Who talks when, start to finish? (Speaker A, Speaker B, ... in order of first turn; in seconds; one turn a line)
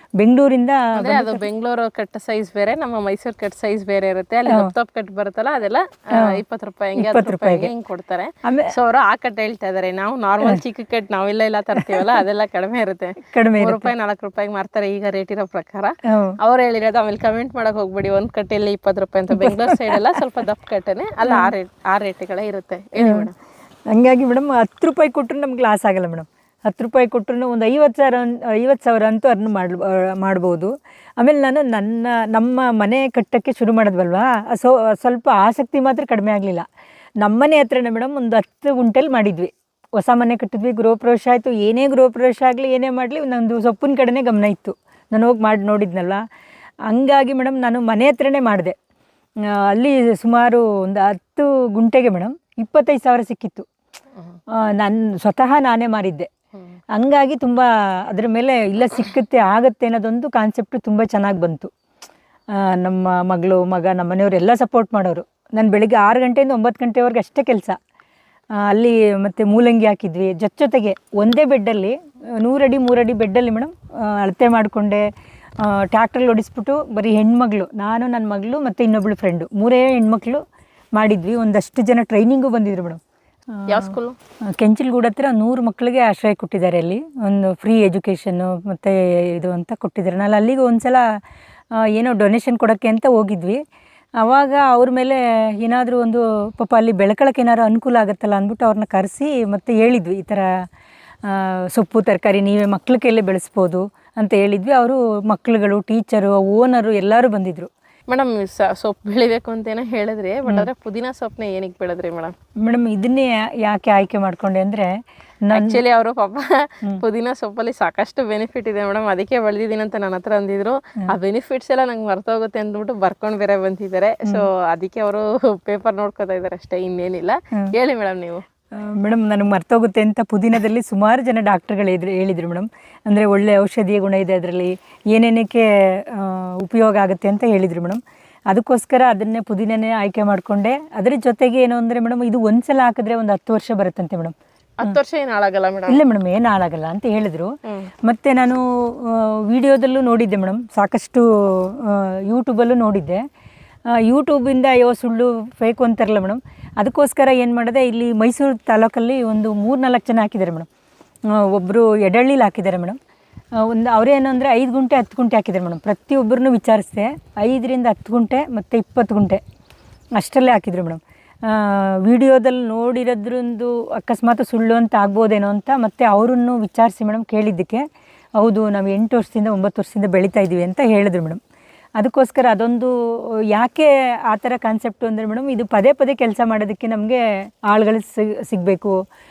Speaker A: 0.2-1.4
Speaker B: 0.9-23.3
Speaker A: 6.1-6.4
Speaker A: 7.0-7.7
Speaker A: 8.4-8.7
Speaker A: 11.8-12.2
Speaker A: 13.3-13.9
Speaker A: 16.0-16.4
Speaker A: 19.3-20.2
Speaker A: 21.2-21.5
Speaker A: 23.0-23.3
Speaker A: 23.9-36.6
Speaker A: 37.2-46.2
Speaker A: 46.9-48.8
Speaker A: 49.4-53.7
Speaker A: 54.5-56.3
Speaker A: 56.9-61.7
Speaker A: 62.5-67.8
Speaker A: 68.6-75.1
Speaker A: 75.6-80.4
Speaker A: 81.0-83.0
Speaker A: 83.5-83.9
Speaker B: 83.7-84.2
Speaker A: 84.5-91.1
Speaker A: 91.7-93.6
Speaker A: 94.2-100.5
Speaker A: 101.2-107.7
Speaker B: 108.1-112.3
Speaker A: 112.6-115.8
Speaker B: 115.5-128.4
Speaker A: 128.7-145.0
Speaker B: 144.8-146.0
Speaker A: 145.9-153.2
Speaker B: 147.7-147.9
Speaker A: 153.9-160.7
Speaker A: 161.3-163.0
Speaker A: 163.6-169.4
Speaker A: 170.2-177.8
Speaker A: 178.4-181.4
Speaker A: 182.0-182.9
Speaker A: 183.5-188.9